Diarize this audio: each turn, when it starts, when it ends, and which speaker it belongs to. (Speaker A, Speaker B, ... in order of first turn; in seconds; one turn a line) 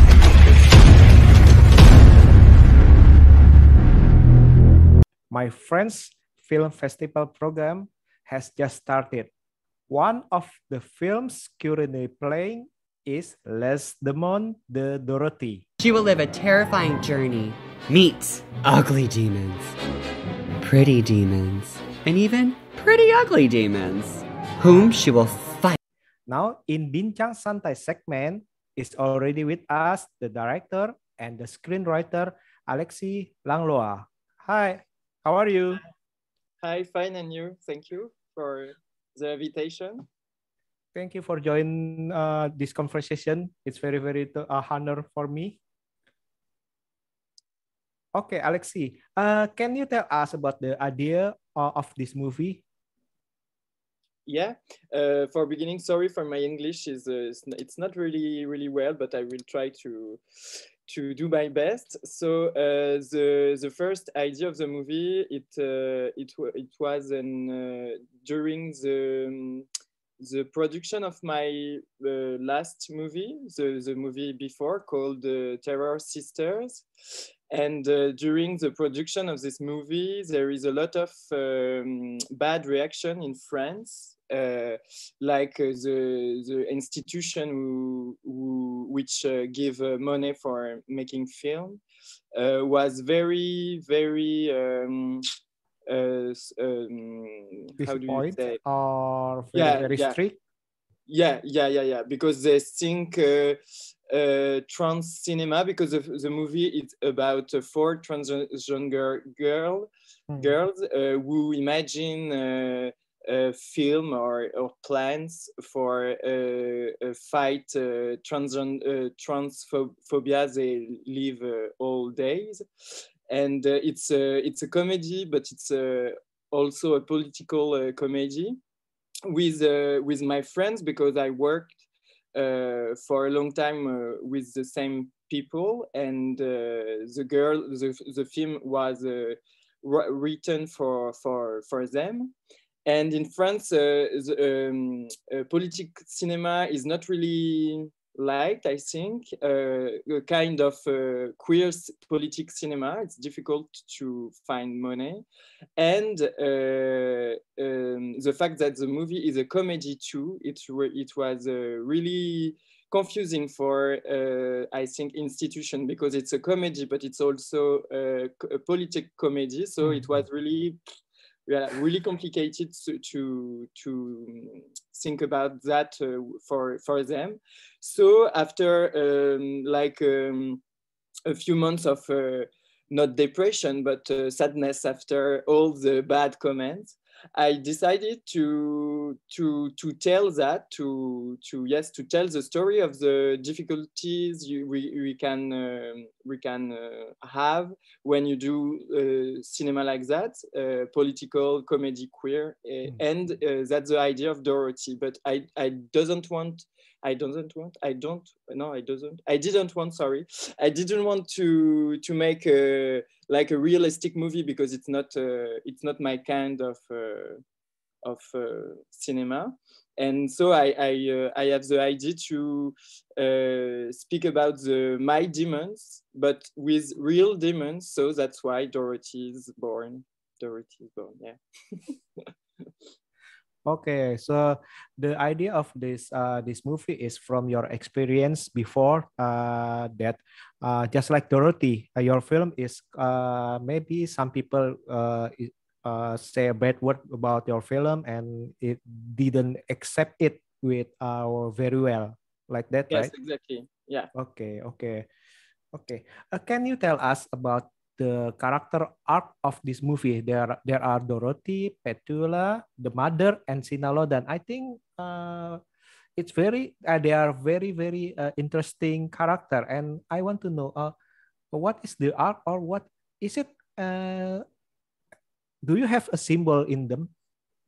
Speaker A: 5.3-9.3
Speaker A: 9.9-15.7
Speaker B: 15.8-19.8
Speaker B: 20.6-25.8
Speaker A: 26.3-35.8
Speaker C: 36.6-40.0
Speaker A: 40.9-45.6
Speaker A: 48.1-52.6
Speaker C: 54.3-69.7
Speaker C: 70.2-76.8
Speaker C: 77.5-91.8
Speaker C: 92.3-95.2
Speaker C: 95.9-98.6
Speaker A: 97.8-100.4
Speaker C: 99.5-100.2
Speaker C: 101.1-103.6
Speaker C: 104.1-122.6
Speaker C: 123.3-128.6
Speaker C: 129.3-131.7
Speaker C: 132.3-142.3
Speaker C: 142.8-155.2
Speaker C: 155.8-170.8
Speaker A: 169.8-170.1
Speaker C: 171.5-180.6
Speaker C: 181.2-217.4
Speaker C: 218.0-232.3
Speaker A: 233.7-253.1
Speaker C: 252.9-254.1
Speaker A: 254.1-255.1
Speaker A: 255.7-265.6
Speaker A: 266.2-270.9
Speaker A: 271.5-274.4
Speaker A: 275.6-277.1